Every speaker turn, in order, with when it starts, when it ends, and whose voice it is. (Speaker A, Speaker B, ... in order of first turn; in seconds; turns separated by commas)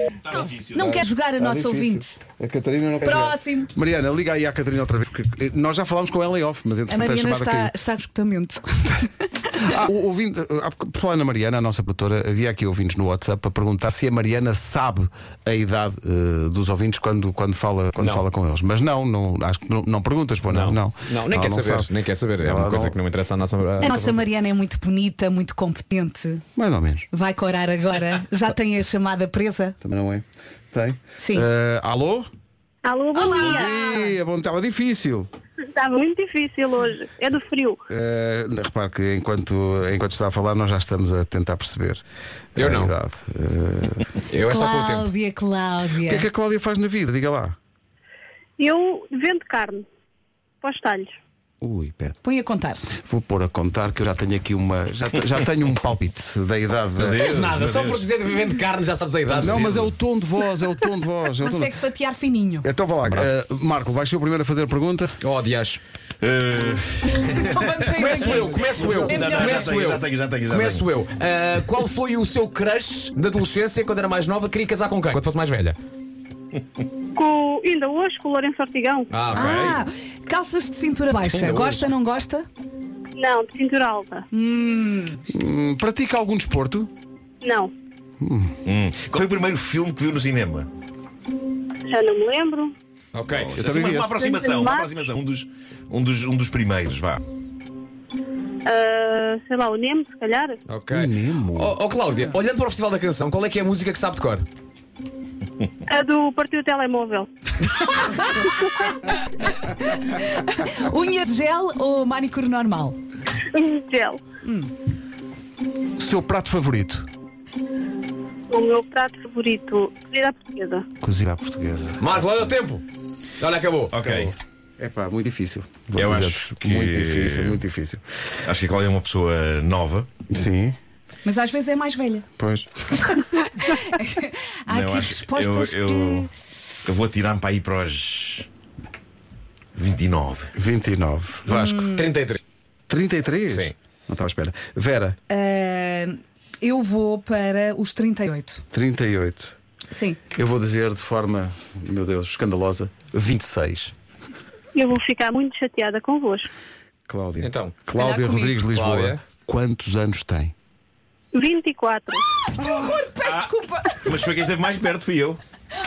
Speaker A: 0.2-1.0, Speaker B: 0.7-2.0, Speaker C: 0.8-7.7, Speaker B: 3.0-3.7, Speaker B: 6.9-9.1, Speaker C: 9.6-23.0, Speaker D: 18.0-18.2, Speaker D: 20.5-24.2, Speaker B: 23.8-26.4, Speaker C: 26.6-27.1, Speaker B: 27.1-29.7, Speaker C: 29.8-32.3, Speaker B: 31.2-31.4, Speaker E: 32.8-33.7, Speaker B: 33.1-34.1, Speaker C: 33.2-35.3, Speaker E: 35.7-37.8, Speaker C: 37.9-42.0, Speaker C: 42.5-44.1, Speaker D: 42.5-42.9, Speaker D: 44.3-45.1, Speaker B: 44.5-46.3, Speaker C: 46.0-47.5, Speaker E: 48.6-49.8, Speaker E: 50.6-51.1, Speaker C: 51.6-52.2, Speaker B: 52.2-52.9, Speaker C: 53.0-57.5, Speaker A: 57.0-58.1, Speaker D: 57.0-59.8, Speaker A: 59.3-59.9, Speaker C: 59.4-61.8, Speaker B: 61.4-62.7, Speaker C: 62.6-65.2, Speaker D: 63.0-63.3, Speaker D: 65.2-65.8, Speaker A: 66.2-70.8, Speaker B: 67.4-69.6, Speaker D: 68.0-75.8, Speaker E: 77.2-79.1, Speaker D: 79.1-79.8, Speaker B: 79.3-82.5, Speaker D: 81.1-81.9, Speaker E: 83.1-84.2, Speaker B: 84.3-85.2, Speaker C: 85.3-86.9, Speaker E: 87.4-87.7, Speaker C: 88.2-88.5, Speaker A: 88.6-90.7, Speaker E: 91.9-92.7, Speaker D: 93.1-93.5, Speaker A: 93.3-97.2, Speaker C: 93.5-94.1, Speaker E: 93.7-95.0, Speaker E: 98.7-100.6, Speaker D: 100.7-104.4, Speaker C: 100.9-101.8, Speaker E: 105.8-107.3, Speaker B: 107.8-108.3, Speaker E: 108.4-109.0, Speaker B: 109.0-113.0, Speaker E: 113.5-114.4, Speaker B: 114.4-114.7, Speaker C: 116.0-117.1, Speaker E: 118.5-120.8, Speaker C: 121.0-122.5, Speaker D: 122.0-122.8, Speaker D: 123.4-123.9, Speaker A: 123.9-124.3, Speaker C: 124.0-128.0, Speaker A: 125.9-127.6, Speaker A: 128.4-130.2, Speaker C: 130.3-130.8, Speaker B: 131.2-132.2, Speaker C: 132.4-132.8, Speaker B: 132.9-136.3, Speaker A: 134.7-136.3, Speaker A: 136.8-138.5, Speaker A: 139.7-140.5, Speaker C: 140.6-142.0, Speaker B: 141.5-142.0, Speaker D: 141.8-142.4, Speaker C: 142.9-145.2, Speaker D: 143.5-143.7, Speaker B: 145.3-148.6, Speaker C: 148.7-149.6, Speaker B: 149.9-150.2, Speaker C: 150.3-153.9, Speaker E: 154.7-156.5, Speaker C: 157.1-160.5, Speaker D: 157.4-157.8, Speaker B: 157.9-158.6, Speaker D: 158.7-159.2, Speaker E: 161.3-162.3, Speaker B: 162.5-164.2, Speaker A: 163.2-165.4